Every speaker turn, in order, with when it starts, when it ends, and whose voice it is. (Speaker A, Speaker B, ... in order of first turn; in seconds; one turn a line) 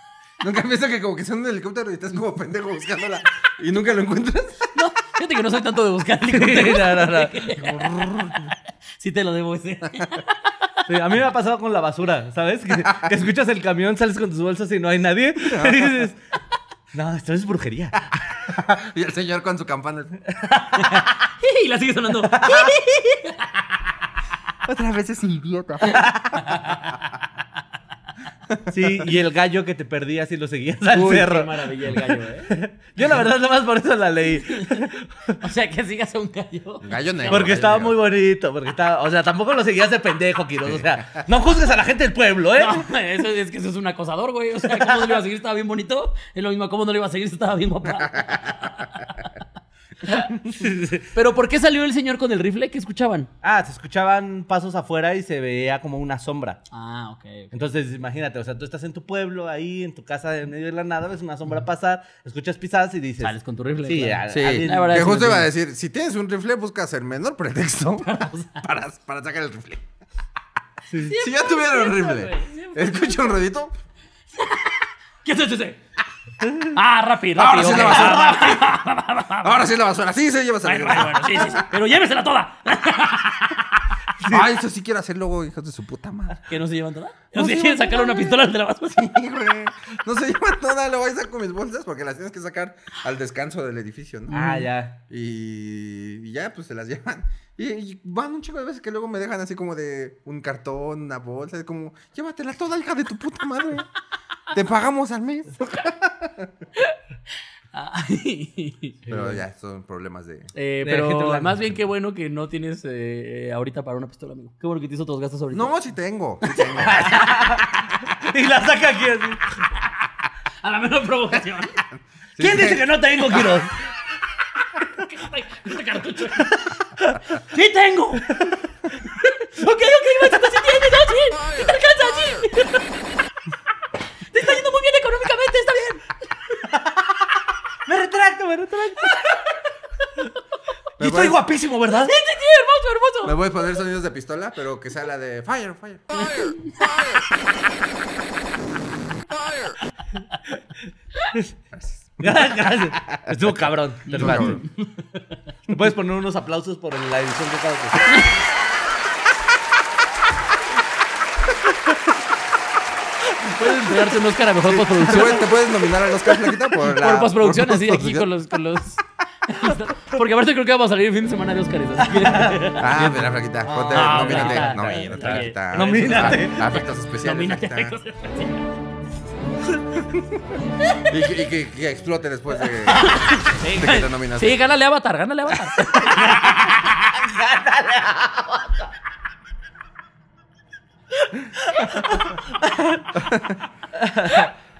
Speaker A: 0.4-4.7
Speaker B: 4.7-8.0
Speaker C: 6.3-7.6
Speaker A: 7.6-8.5
Speaker B: 9.0-10.3
Speaker C: 10.8-16.2
Speaker A: 15.5-15.9
Speaker C: 16.9-18.5
Speaker A: 18.5-20.2
Speaker C: 20.6-21.0
Speaker B: 20.8-23.5
Speaker C: 22.4-22.7
Speaker A: 24.6-26.1
Speaker B: 25.9-27.0
Speaker C: 28.7-35.4
Speaker B: 30.9-32.5
Speaker B: 34.5-34.9
Speaker B: 35.4-37.5
Speaker A: 36.8-37.9
Speaker C: 37.3-42.9
Speaker B: 42.6-49.2
Speaker C: 44.7-45.2
Speaker B: 50.0-50.3
Speaker C: 50.5-51.0
Speaker B: 51.1-53.3
Speaker C: 53.4-56.6
Speaker B: 56.7-57.5
Speaker C: 57.5-65.3
Speaker B: 63.2-65.5
Speaker A: 64.3-69.8
Speaker B: 68.0-68.6
Speaker C: 70.9-71.1
Speaker B: 71.0-73.3
Speaker A: 71.1-73.7
Speaker B: 74.4-75.8
Speaker B: 76.7-79.6
Speaker A: 77.3-78.7
Speaker C: 77.8-78.1
Speaker A: 79.4-81.7
Speaker B: 80.6-83.9
Speaker C: 84.2-84.5
Speaker A: 84.3-86.4
Speaker B: 86.5-89.1
Speaker A: 87.3-94.4
Speaker B: 94.3-94.7
Speaker C: 94.3-95.0
Speaker A: 95.1-103.9
Speaker A: 104.5-106.5
Speaker B: 107.7-109.0
Speaker C: 109.1-109.4
Speaker A: 109.1-110.5
Speaker B: 110.5-115.7
Speaker C: 110.8-111.5
Speaker A: 115.5-117.1
Speaker B: 116.5-117.6
Speaker C: 116.8-119.6
Speaker B: 120.6-121.8
Speaker A: 122.3-122.8
Speaker C: 122.4-123.7
Speaker B: 125.0-126.7
Speaker C: 126.5-127.1
Speaker B: 127.4-128.3
Speaker B: 129.1-133.0
Speaker B: 134.3-136.1
Speaker C: 136.7-137.2
Speaker C: 137.8-139.2
Speaker B: 139.1-139.4
Speaker C: 141.0-142.1
Speaker A: 141.0-141.4
Speaker B: 142.0-143.4
Speaker A: 143.2-146.5
Speaker B: 146.2-146.8
Speaker A: 151.8-152.3
Speaker C: 152.2-154.7
Speaker B: 154.1-154.7
Speaker A: 154.1-154.6
Speaker C: 155.7-158.2
Speaker B: 158.1-158.3
Speaker B: 163.4-165.6
Speaker A: 164.7-168.3
Speaker B: 166.7-173.0
Speaker C: 172.0-176.6
Speaker A: 172.8-177.9
Speaker B: 173.9-178.7
Speaker A: 181.0-184.6
Speaker B: 182.9-186.8
Speaker C: 186.0-188.9
Speaker C: 191.5-193.1
Speaker A: 193.1-193.6
Speaker C: 193.9-194.5